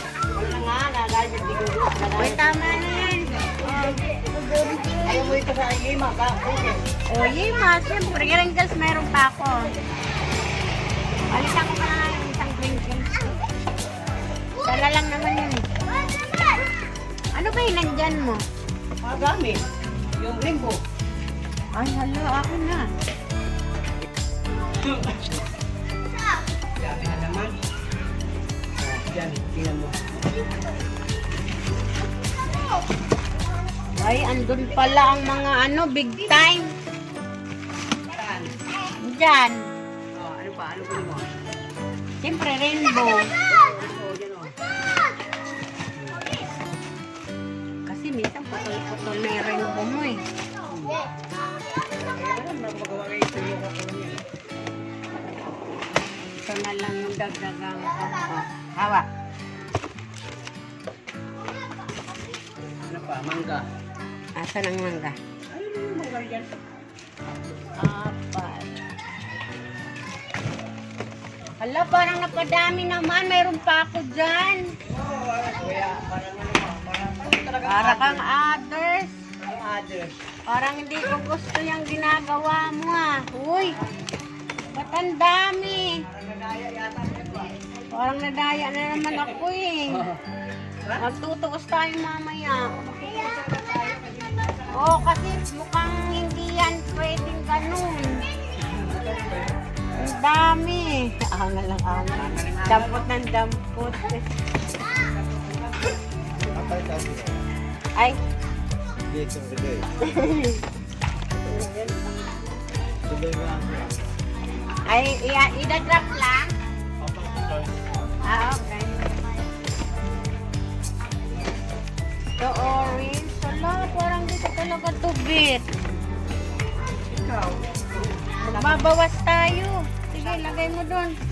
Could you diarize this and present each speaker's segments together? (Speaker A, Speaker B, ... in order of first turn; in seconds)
Speaker A: 0.3-2.9, 5.0-6.8, 19.0-19.6, 20.2-20.8, 24.7-25.4, 26.8-27.6, 28.8-30.0, 38.1-38.5, 40.2-41.3, 43.5-44.5, 46.0-46.2, 50.7-51.0, 52.0-54.2, 62.9-63.6, 65.5-66.5, 74.9-78.3, 79.4-80.2, 86.0-87.6, 89.9-90.2, 92.7-95.0, 98.6-99.5, 102.1-103.1, 104.9-106.0, 127.0-128.9
Speaker B: 2.2-5.4, 7.1-9.7, 11.3-13.4, 14.6-15.6, 17.3-18.4, 21.8-22.9, 34.0-36.7, 39.0-39.6, 42.2-43.3, 47.9-50.2, 56.4-59.1, 64.4-65.2, 67.8-68.7, 71.6-74.7, 77.7-79.1, 80.5-83.7, 84.7-85.9, 87.9-90.0, 91.0-92.6, 94.8-98.2, 100.0-104.2, 110.0-110.6, 111.5-112.0, 114.9-116.5, 118.2-119.2, 122.4-125.7, 128.5-131.2
Speaker C: 106.5-107.4, 109.1-109.9, 113.1-114.1, 117.0-117.7